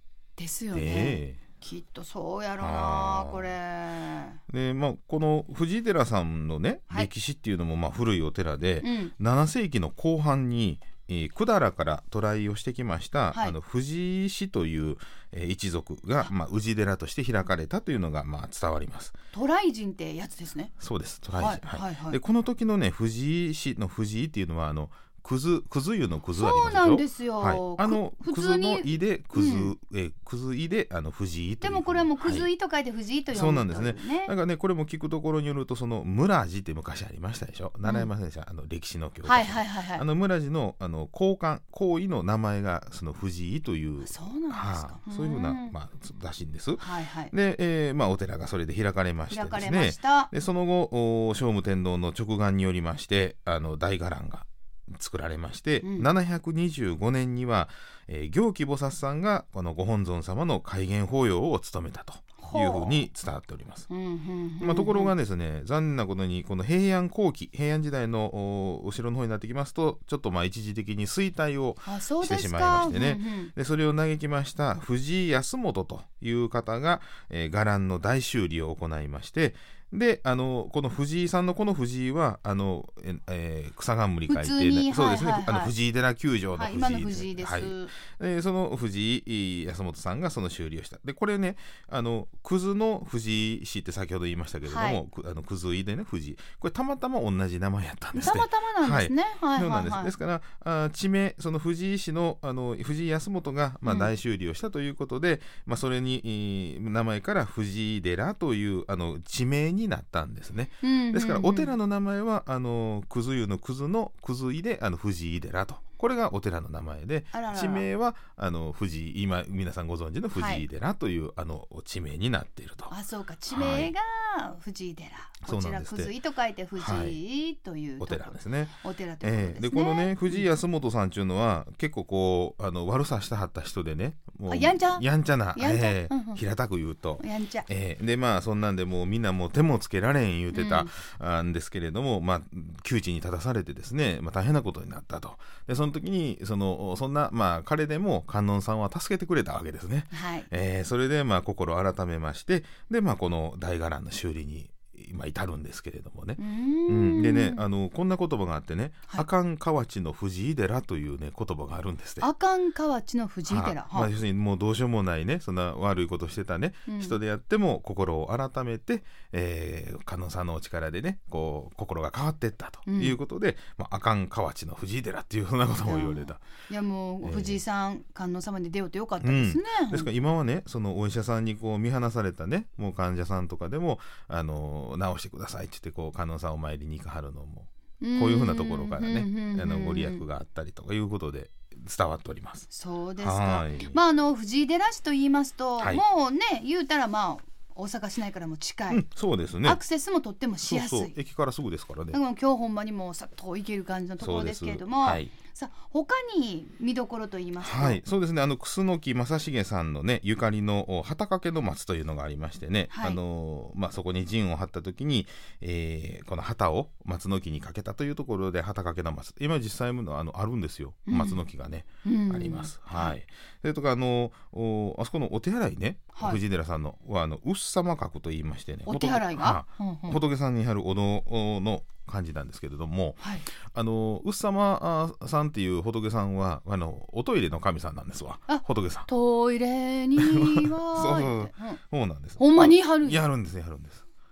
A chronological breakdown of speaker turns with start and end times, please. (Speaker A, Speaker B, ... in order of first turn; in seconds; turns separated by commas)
Speaker A: 0.4-4.4, Speaker B: 0.7-1.4, Speaker B: 2.6-3.6, Speaker B: 4.5-19.1, Speaker A: 8.8-9.1, Speaker A: 19.3-20.7, Speaker B: 20.8-32.5, Speaker A: 21.3-22.2, Speaker A: 26.4-29.7, Speaker A: 31.6-34.3, Speaker B: 33.3-63.9, Speaker A: 37.9-38.1, Speaker A: 39.2-40.0, Speaker A: 44.0-45.7, Speaker A: 46.8-47.3, Speaker A: 49.3-50.3, Speaker A: 55.8-56.1, Speaker A: 62.4-63.1, Speaker A: 63.9-65.1, Speaker B: 64.6-122.9, Speaker A: 71.8-73.5, Speaker A: 84.3-85.7, Speaker A: 86.5-87.9, Speaker A: 94.7-95.0, Speaker A: 98.2-100.2, Speaker A: 103.8-104.1, Speaker A: 110.8-111.8, Speaker A: 117.3-117.9, Speaker A: 120.3-120.6, Speaker A: 122.9-130.4, Speaker B: 123.5-123.9, Speaker B: 125.4-126.1, Speaker B: 126.8-127.2, Speaker B: 128.0-162.3, Speaker A: 134.5-135.0, Speaker A: 135.6-136.4, Speaker A: 137.2-137.7, Speaker A: 140.5-140.9, Speaker A: 150.1-150.5, Speaker A: 156.4-157.6, Speaker A: 162.2-164.1, Speaker B: 163.5-176.4, Speaker A: 166.9-167.2, Speaker A: 172.8-173.2, Speaker A: 175.8-180.1, Speaker B: 177.2-177.6, Speaker B: 179.2-192.7, Speaker A: 188.0-190.2, Speaker A: 192.7-199.0, Speaker B: 193.2-194.0, Speaker B: 198.9-199.8, Speaker A: 199.7-201.2, Speaker B: 200.6-202.2, Speaker A: 202.1-208.0, Speaker B: 204.2-205.3, Speaker B: 207.6-239.1, Speaker A: 212.9-213.2, Speaker A: 221.1-221.4, Speaker A: 222.0-223.2, Speaker A: 226.2-226.4, Speaker A: 228.9-230.2, Speaker A: 233.2-233.5, Speaker A: 238.5-241.8, Speaker B: 240.2-244.0, Speaker A: 242.4-243.2